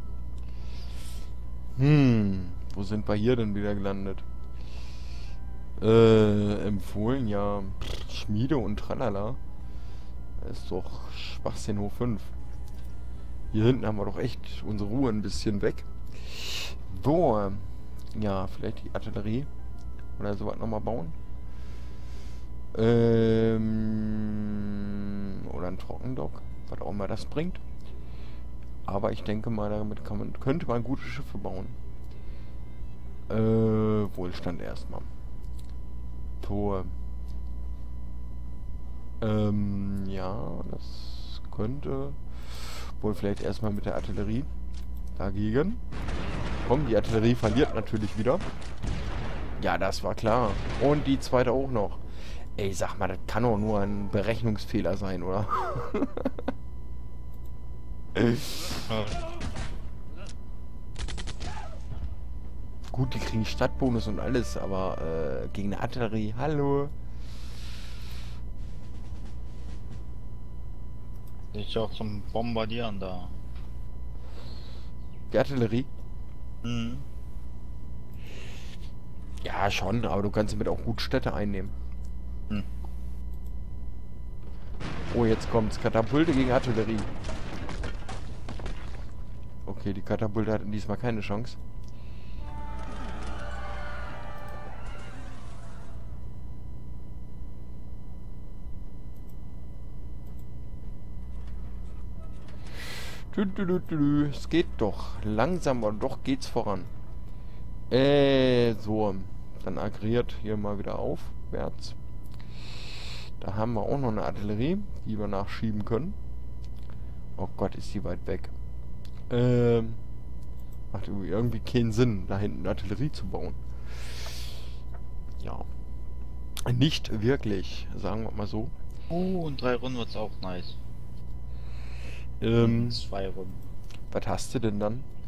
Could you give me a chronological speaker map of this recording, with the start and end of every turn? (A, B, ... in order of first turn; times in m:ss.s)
0:01.8-0:04.2 A
0:05.8-0:09.4 A
0:10.4-0:12.3 A
0:13.5-0:19.5 A
0:20.2-0:21.2 A
0:22.7-0:27.6 A
0:28.8-0:31.8 A
0:33.3-0:35.1 A
0:36.4-0:36.9 A
0:39.2-0:44.5 A
0:45.2-0:45.8 A
0:46.6-0:48.4 A
0:49.6-0:52.0 A
0:52.6-0:56.4 A
0:58.2-0:58.6 A
0:58.9-0:59.2 B
1:02.9-1:06.9 A
1:11.5-1:13.3 B
1:15.3-1:15.9 A
1:16.6-1:17.0 B
1:19.4-1:21.7 A
1:25.1-1:27.1 A
1:29.6-1:31.6 A
1:43.1-1:46.9 A
1:47.9-1:52.0 A
1:53.0-1:56.2 A
1:57.4-1:58.5 A
1:59.3-2:00.0 A
2:00.9-2:04.3 A
2:05.4-2:05.6 A
2:06.6-2:08.7 A
2:09.1-2:10.8 B
2:12.4-2:13.0 A
2:12.6-2:13.6 B
2:14.1-2:15.0 A